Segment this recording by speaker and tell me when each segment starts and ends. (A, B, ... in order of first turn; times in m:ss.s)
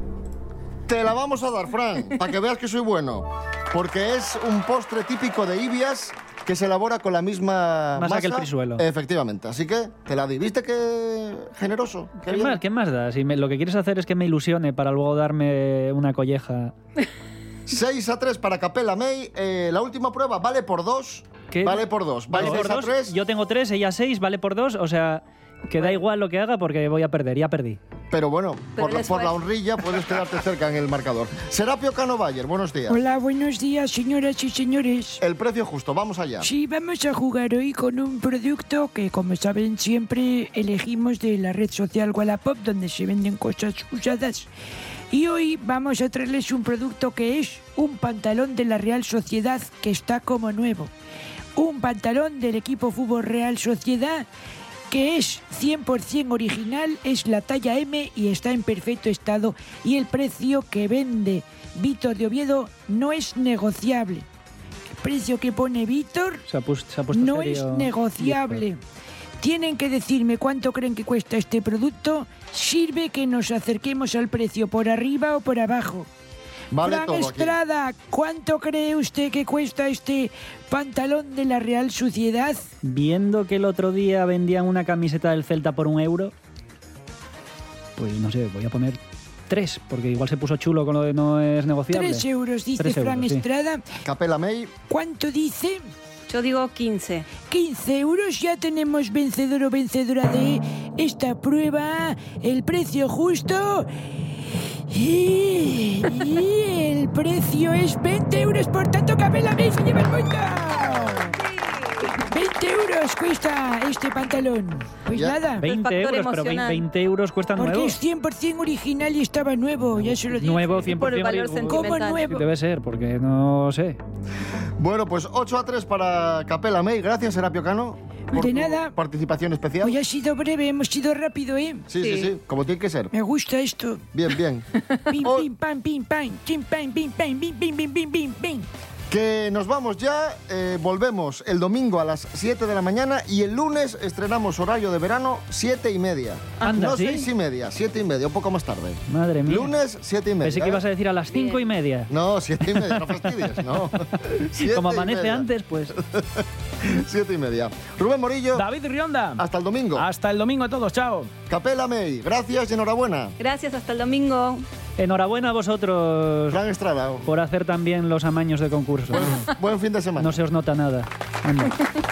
0:00.9-0:12.6 A
0:08.0-0:08.8 B
0:12.2-0:16.7 B
0:17.7-0:23.2 A
0:21.5-0:27.8 B
0:28.1-0:33.0 A
0:28.8-0:29.4 C
0:32.9-0:35.2 D
0:35.2-0:36.5 A
0:36.4-0:44.5 D
0:45.1-0:50.9 D
0:51.6-0:54.3 D
0:54.9-1:04.2 D
1:04.9-1:06.4 D
1:06.5-1:08.6 B
1:07.1-1:08.8 D
1:09.4-1:16.1 D
1:16.7-1:17.6 A
1:16.8-1:22.7 D
1:22.8-1:26.3 B
1:28.0-1:32.3 B
1:31.9-1:33.8 D
1:32.8-1:33.4 B
1:34.0-1:34.7 A
1:34.9-1:35.8 D
1:36.3-1:37.3 C
1:37.4-1:43.9 D
1:44.9-1:51.4 D
1:51.2-1:52.3 C
1:52.3-1:55.6 D
1:55.1-1:55.4 A
1:55.6-1:58.0 B
1:55.6-1:56.8 C
1:57.6-2:00.9 D
2:00.0-2:04.0 B
2:00.7-2:02.3 C
2:01.6-2:02.4 D
2:04.8-2:10.0 A
2:08.3-2:09.0 D
2:09.8-2:11.9 D
2:11.9-2:13.1 A
2:12.0-2:12.3 C
2:13.1-2:14.1 D
2:14.1-2:14.7 A
2:15.1-2:18.7 D
2:15.2-2:15.5 A
2:19.1-2:30.8 A
2:26.6-2:27.3 B
2:29.1-2:29.7 B
2:30.4-2:32.1 B
2:31.3-2:31.6 C
2:32.1-2:38.6 A
2:34.6-2:36.0 B
2:38.5-2:39.4 E
2:39.4-2:40.1 A
2:39.9-2:41.3 E
2:41.5-2:43.4 A
2:43.4-2:44.7 C
2:45.0-2:46.6 B
2:46.5-2:47.3 A
2:47.2-2:49.3 B
2:49.1-2:50.4 A
2:50.2-2:51.8 B